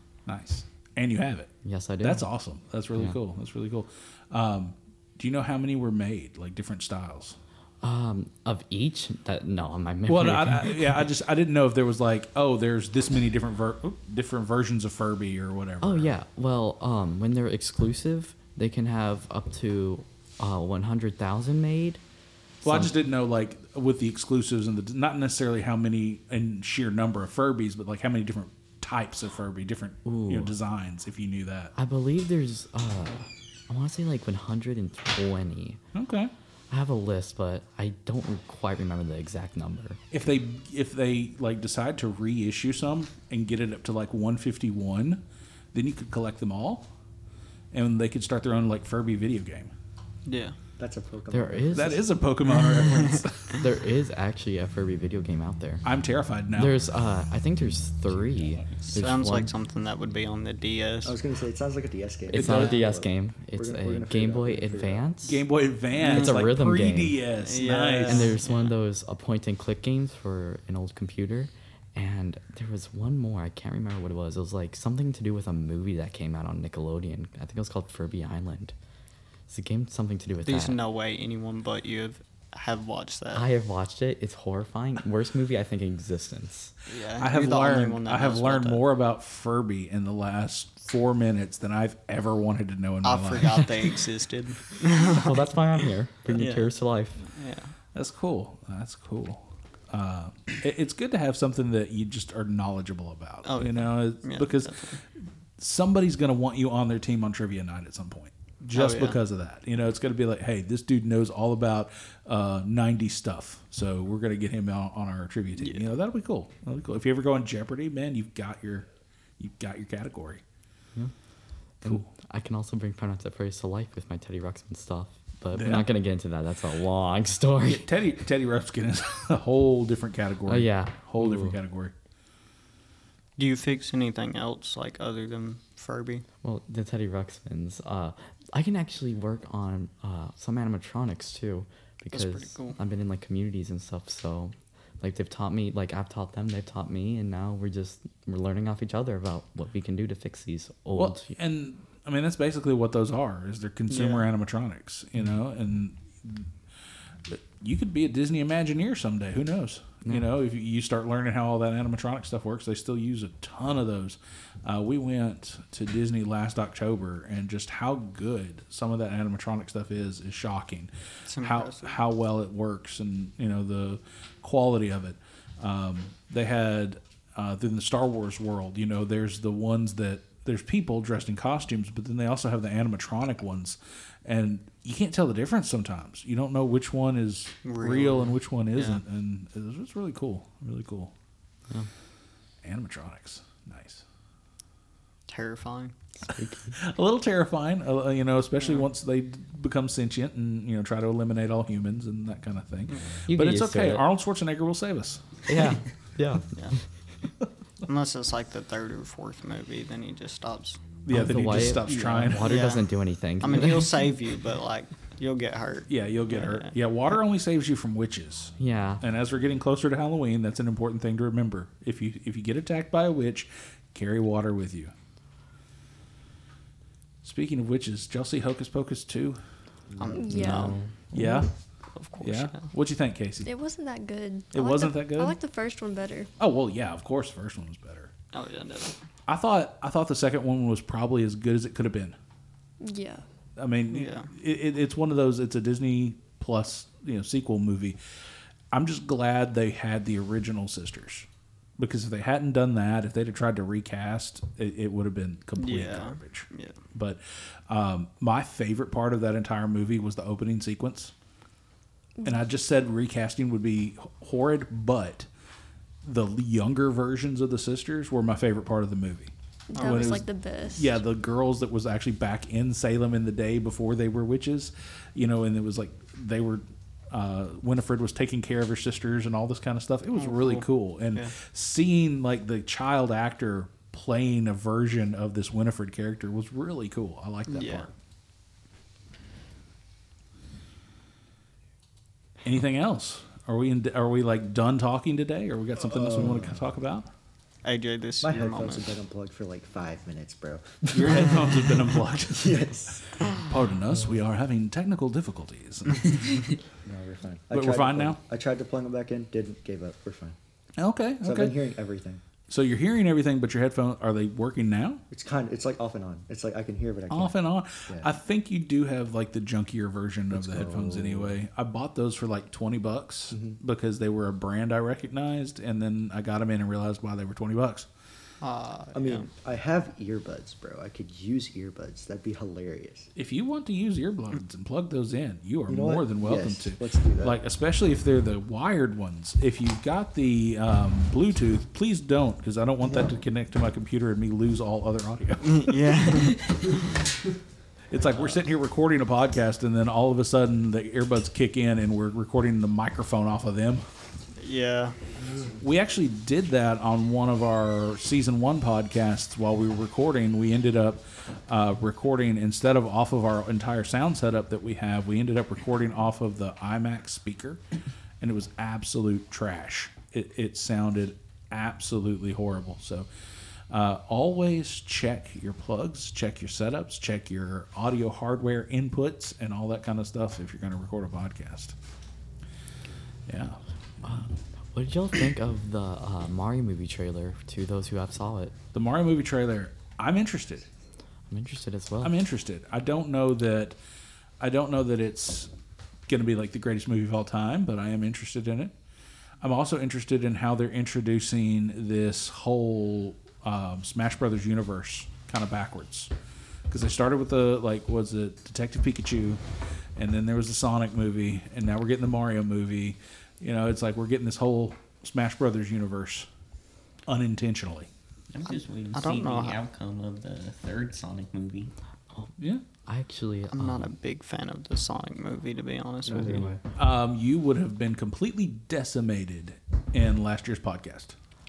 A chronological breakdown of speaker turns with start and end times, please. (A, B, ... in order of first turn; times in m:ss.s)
0:00.2-0:07.4 A
0:01.6-0:02.2 B
0:07.8-0:11.1 B
0:10.1-0:16.1 A
0:15.8-0:22.0 B
0:22.6-0:22.9 B
0:22.6-0:31.7 A
0:30.0-0:30.5 B
0:31.8-0:35.8 B
0:35.9-0:36.3 A
0:36.7-0:40.0 B
0:40.1-0:45.2 A
0:45.7-0:46.9 A
0:47.7-0:49.7 A
0:50.3-0:50.5 C
0:50.8-0:52.0 D
0:51.3-0:52.0 B
0:51.7-0:53.6 A
0:52.5-0:53.2 C
0:53.5-0:55.8 B
0:55.8-0:56.8 A
0:56.6-0:59.5 B
0:58.9-1:01.2 C
1:01.0-1:05.0 D
1:02.3-1:05.4 B
1:02.3-1:02.8 A
1:05.2-1:08.4 A
1:05.9-1:06.4 C
1:06.0-1:07.2 B
1:07.4-1:08.7 C
1:08.1-1:18.7 B
1:19.5-1:20.8 B
1:20.4-1:23.4 C
1:23.3-1:26.7 B
1:26.9-1:28.8 C
1:27.2-1:33.9 A
1:33.0-1:36.7 C
1:35.0-1:37.2 B
1:37.3-1:37.7 C
1:37.9-1:44.9 A
1:43.4-1:45.0 C
1:45.6-1:58.9 A
1:48.7-1:49.2 C
1:59.4-2:00.4 A
2:01.8-2:07.8 B
2:01.8-2:02.1 A
2:05.5-2:05.9 A
2:07.6-2:11.9 A
2:10.5-2:11.6 B
2:13.4-2:16.2 C
2:16.4-2:31.3 B
2:22.1-2:22.8 C
2:30.9-2:36.5 A
2:33.9-2:34.3 C
2:37.3-3:11.1 A
2:51.3-2:51.9 C
3:07.6-3:09.0 C
3:12.6-3:14.0 A
3:15.3-3:15.9 C
3:16.2-3:16.8 B
3:16.7-3:25.4 A
3:18.6-3:18.9 C
3:23.3-3:24.0 B
3:25.5-3:26.5 B
3:27.8-3:30.8 C
3:31.0-3:32.6 A
3:31.1-3:33.9 B
3:32.4-3:32.8 C
3:33.4-3:36.7 C
3:35.9-3:44.9 A
3:38.6-3:39.0 B
3:47.2-3:49.4 A
3:49.9-3:50.2 D
3:50.0-3:50.7 C
3:50.1-3:50.8 E
3:50.3-3:50.9 B
3:51.1-3:51.5 A
3:51.9-3:52.7 C
3:52.2-3:53.5 A
3:53.4-3:56.3 E
3:54.5-3:55.4 A
3:56.4-3:58.1 A
3:58.3-3:59.0 C
3:59.3-4:02.2 A
4:02.8-4:03.2 E
4:03.6-4:08.0 A
4:03.9-4:04.3 C
4:08.7-4:11.3 A
4:11.8-4:21.1 A
4:15.6-4:16.8 C
4:22.2-4:25.3 A
4:26.0-4:47.9 A
4:29.7-4:31.0 E
4:29.8-4:30.1 C
4:40.1-4:41.3 C
4:47.5-4:47.9 C
4:52.4-4:57.1 A
4:55.9-4:56.6 D
4:57.6-4:58.9 C
4:58.2-5:03.3 D
5:00.9-5:06.5 A
5:06.8-5:10.4 D
5:07.5-5:08.2 A
5:10.8-5:11.6 A
5:11.2-5:12.2 D
5:12.5-5:15.0 A
5:15.1-5:18.1 D
5:17.1-5:27.9 A
5:20.3-5:21.4 D
5:23.3-5:23.6 D
5:28.4-5:29.3 C
5:28.9-5:33.1 D
5:33.2-5:46.3 A
5:35.7-5:37.4 D
5:42.8-5:43.2 D
5:45.4-5:46.7 C
5:47.9-5:53.8 A
5:54.4-5:55.0 C
5:55.6-6:07.6 A
6:08.2-6:13.1 A
6:13.7-6:21.7 A
6:23.3-6:23.6 A
6:24.0-6:28.5 B
6:28.7-6:30.7 A
6:31.3-6:32.1 B
6:32.0-6:33.8 A
6:34.4-6:35.5 A
6:36.1-6:38.7 A
6:39.4-6:46.1 A
6:46.7-6:49.4 A
6:50.0-6:56.3 A
6:57.1-6:57.9 A
6:58.3-7:01.7 F
6:58.9-6:59.6 C
7:02.8-7:03.9 B
7:03.5-7:06.5 C
7:06.0-7:06.6 D
7:06.7-7:11.1 A